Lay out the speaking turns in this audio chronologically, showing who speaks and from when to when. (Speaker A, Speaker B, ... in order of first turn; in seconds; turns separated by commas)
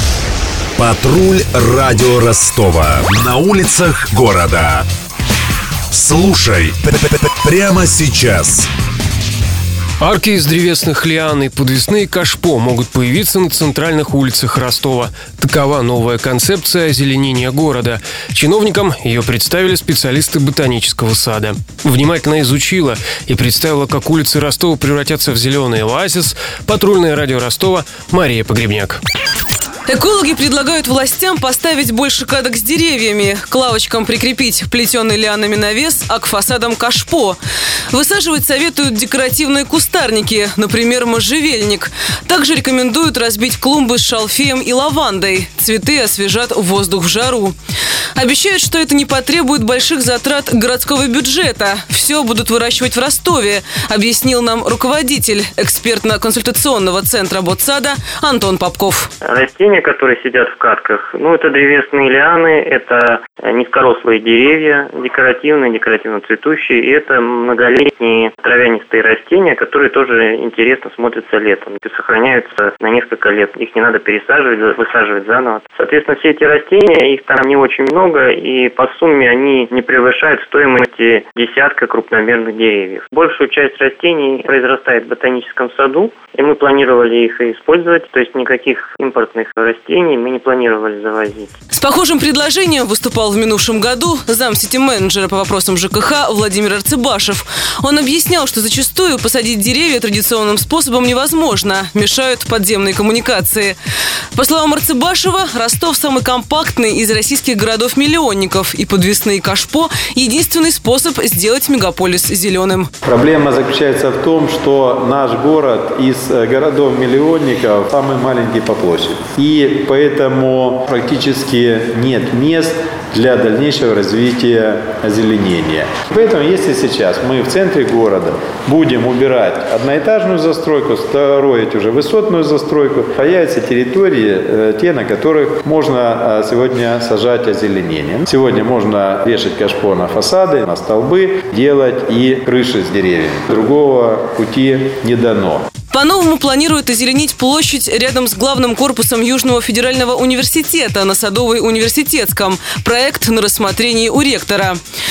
Speaker A: 0.8-4.8, Speaker A: 5.9-8.7, Speaker B: 10.0-29.0, Speaker C: 29.9-37.4, Speaker C: 37.9-47.5, Speaker C: 48.1-59.1, Speaker D: 59.2-91.5, Speaker C: 91.7-103.8, Speaker C: 104.3-112.9, Speaker E: 113.0-145.6, Speaker C: 145.9-154.8